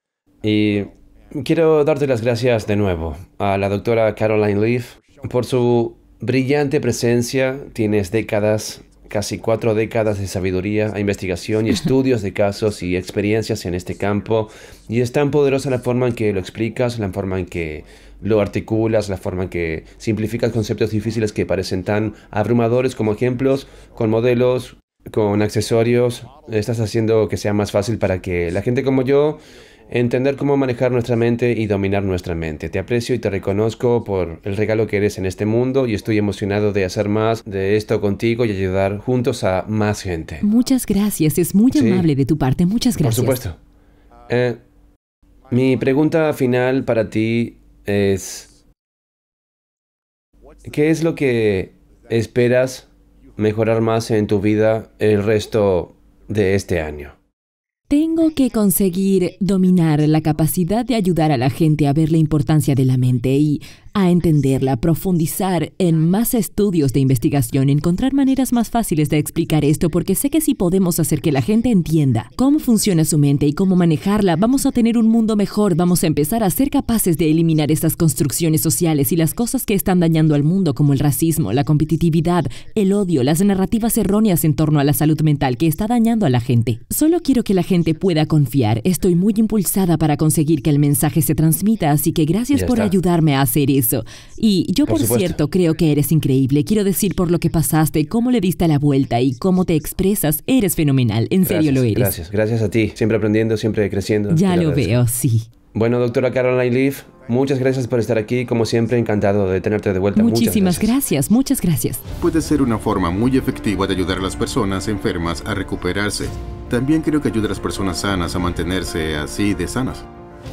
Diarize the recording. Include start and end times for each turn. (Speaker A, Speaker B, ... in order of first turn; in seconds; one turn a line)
Speaker A: 0.4-40.4
Speaker B: 40.4-43.4
Speaker A: 41.7-42.1
Speaker A: 43.0-43.6
Speaker A: 44.3-44.6
Speaker A: 45.5-48.5
Speaker A: 50.6-57.1
Speaker B: 57.9-102.1
Speaker A: 92.5-92.9
Speaker A: 94.8-95.4
Speaker A: 101.4-105.0
Speaker B: 104.3-105.5
Speaker A: 105.7-110.9
Speaker B: 110.1-112.0
Speaker C: 112.2-120.1